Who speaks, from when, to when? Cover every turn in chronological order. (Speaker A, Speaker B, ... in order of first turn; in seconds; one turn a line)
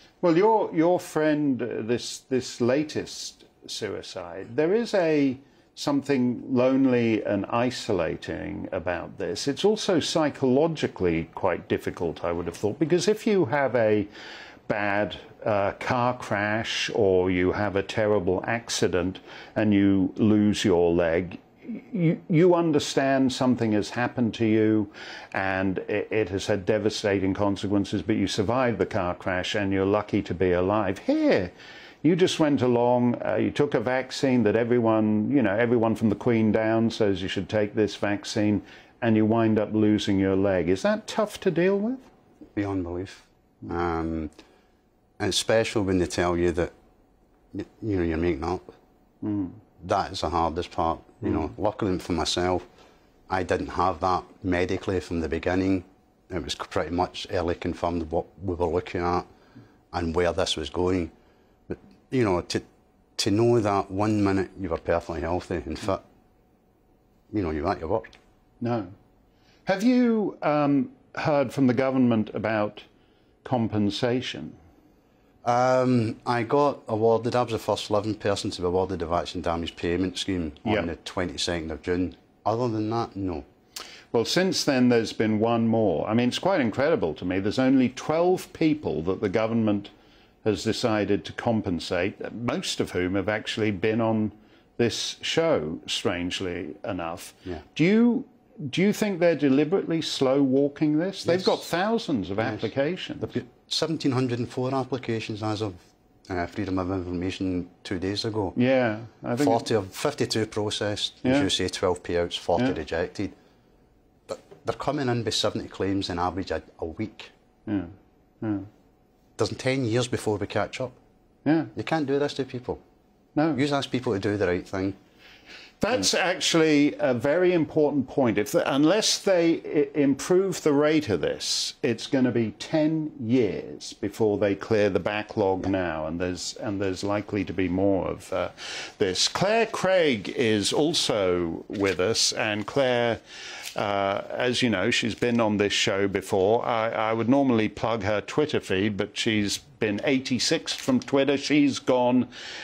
Speaker A: 0.2-14.1
Speaker A: 14.7-42.1
Speaker B: 42.6-44.3
Speaker B: 45.2-46.7
Speaker B: 47.5-48.7
Speaker A: 49.2-49.6
Speaker B: 49.8-52.7
Speaker B: 53.3-59.3
Speaker B: 59.9-61.1
Speaker B: 61.7-62.6
Speaker B: 63.2-66.0
Speaker B: 67.3-68.1
Speaker A: 68.6-68.9
Speaker A: 69.7-72.9
Speaker A: 73.4-74.6
Speaker B: 75.4-83.5
Speaker A: 84.1-89.9
Speaker A: 90.4-103.4
Speaker B: 101.2-101.7
Speaker B: 102.4-108.6
Speaker A: 108.5-109.7
Speaker B: 109.4-113.3
Speaker B: 114.3-117.3
Speaker A: 117.7-118.7
Speaker B: 119.4-121.0
Speaker A: 121.5-121.7
Speaker B: 121.8-122.8
Speaker B: 123.5-125.0
Speaker A: 125.8-143.2
Speaker A: 143.8-152.3